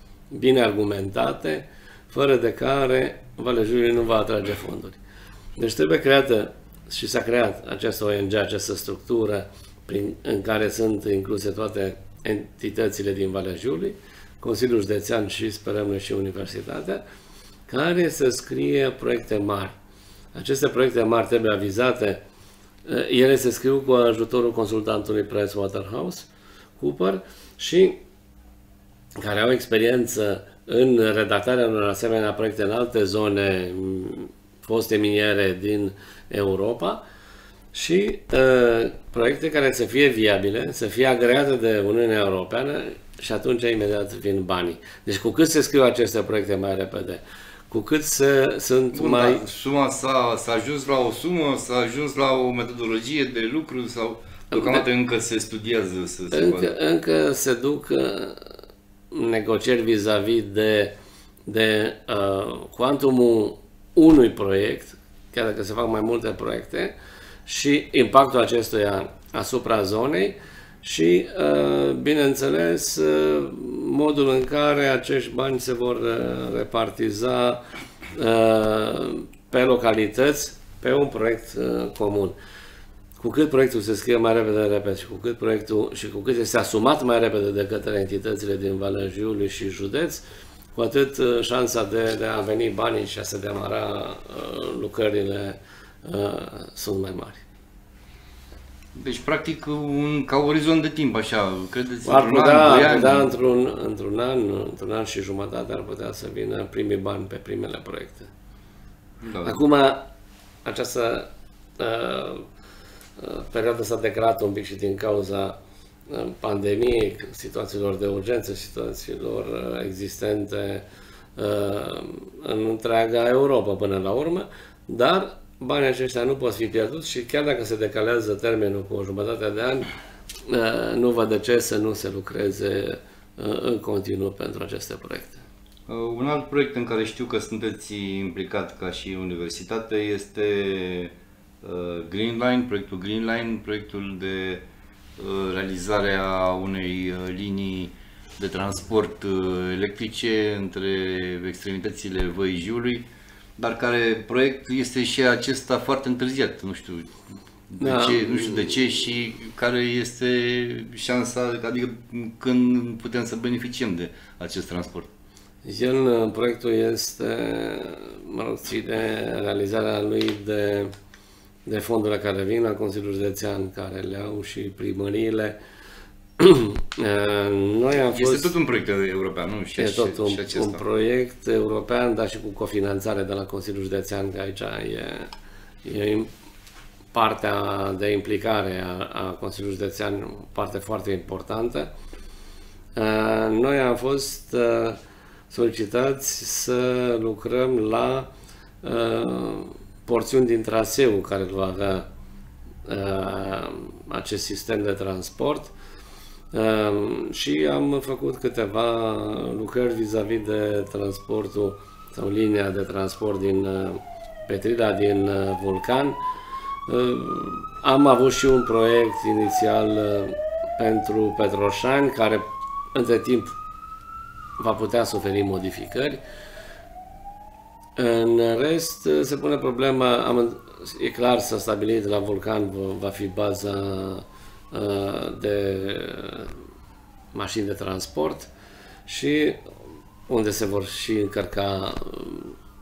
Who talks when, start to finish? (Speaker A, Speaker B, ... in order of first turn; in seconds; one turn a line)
Speaker A: 0.3-5.0
Speaker A: 5.6-17.0
Speaker A: 17.7-19.8
Speaker A: 20.3-22.2
Speaker A: 22.9-28.0
Speaker A: 29.2-37.0
Speaker A: 37.7-49.5
Speaker B: 48.9-56.8
Speaker A: 54.5-54.8
Speaker A: 56.3-58.5
Speaker A: 59.1-61.0
Speaker A: 61.5-67.0
Speaker A: 67.5-77.6
Speaker A: 78.2-82.3
Speaker A: 83.2-97.4
Speaker B: 99.0-103.3
Speaker A: 102.0-108.3
Speaker B: 109.2-109.6
Speaker A: 109.4-110.0
Speaker A: 110.7-111.3
Speaker A: 111.8-112.5
Speaker A: 113.2-115.6
Speaker A: 116.1-120.8
Speaker A: 121.4-129.9
Speaker A: 130.5-135.4
Speaker B: 135.9-144.6
Speaker B: 145.2-157.1
Speaker B: 157.7-165.1
Speaker A: 157.8-158.8
Speaker A: 165.7-170.9
Speaker A: 171.7-175.6
Speaker A: 176.4-178.6
Speaker B: 178.0-180.8
Speaker A: 179.8-185.3
Speaker A: 185.8-186.3
Speaker A: 187.1-191.9
Speaker A: 193.0-195.0
Speaker A: 195.5-198.3
Speaker A: 198.8-202.1
Speaker A: 202.9-205.7
Speaker A: 206.5-216.2
Speaker A: 216.9-223.6
Speaker A: 224.6-226.2
Speaker A: 228.0-236.6
Speaker A: 237.3-238.5
Speaker A: 239.1-239.6
Speaker A: 240.3-242.6